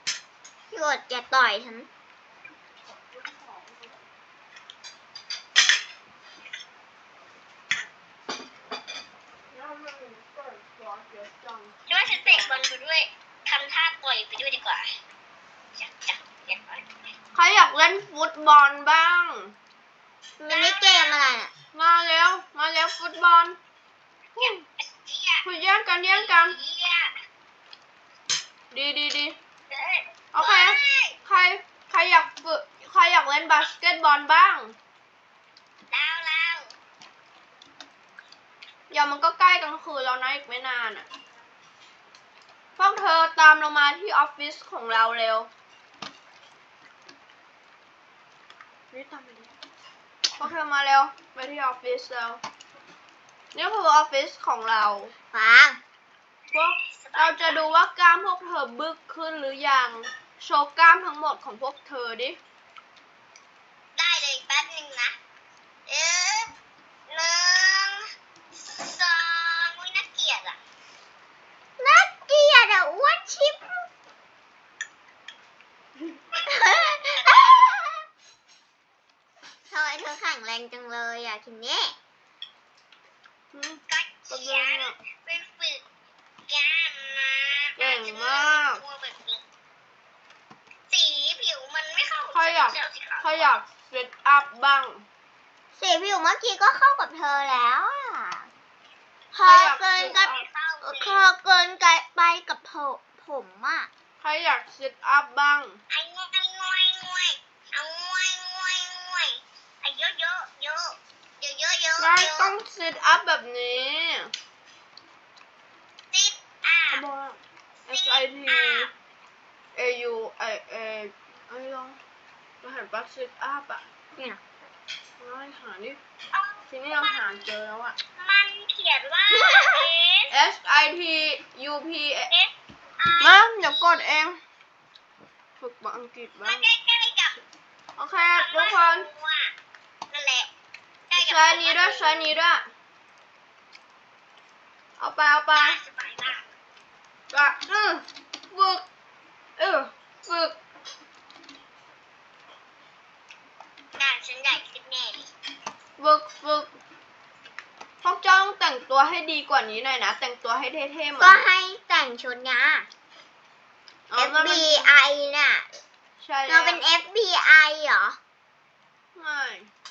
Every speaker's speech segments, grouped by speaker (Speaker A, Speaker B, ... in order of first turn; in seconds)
Speaker A: 0.7-1.9, 20.4-21.5, 55.3-55.8, 71.8-73.7, 76.5-78.0, 79.7-82.0, 95.8-98.5, 99.3-103.9, 124.2-124.4, 129.4-129.8, 161.2-162.9, 164.1-165.8, 166.5-168.2
Speaker B: 2.9-4.0, 9.5-12.7, 17.3-19.5, 21.7-23.6, 24.4-24.6, 25.4-26.6, 28.7-29.4, 30.3-34.8, 38.9-41.1, 42.8-45.5, 48.9-49.5, 50.4-52.4, 53.5-55.1, 56.5-62.4, 83.5-85.0, 87.8-88.8, 92.3-95.1, 99.4-100.4, 104.2-105.8, 112.0-114.3, 116.9-118.9, 119.8-122.0, 122.6-123.8, 125.2-126.0, 126.7-128.0, 130.3-132.3, 133.2-134.4, 135.6-136.7, 138.0-139.1, 141.2-142.7, 145.0-145.8, 147.3-148.8, 149.6-150.6, 156.0-156.7, 158.0-161.4, 164.1-164.9, 166.2-166.8, 169.1-169.7
Speaker C: 11.9-14.8, 15.8-16.9, 20.5-21.2, 24.4-25.5, 26.1-27.1, 29.7-31.2, 35.9-36.7, 56.6-57.7, 64.0-65.2, 65.9-66.5, 67.1-70.6, 76.4-77.6, 83.9-85.8, 86.5-89.4, 90.9-93.5, 100.1-101.2, 105.9-112.5, 116.1-117.0, 117.9-118.9, 126.3-127.4, 128.2-130.3, 132.3-134.1, 136.4-137.4, 138.2-139.5, 140.1-140.5, 141.1-142.3, 145.5-146.5, 154.0-155.3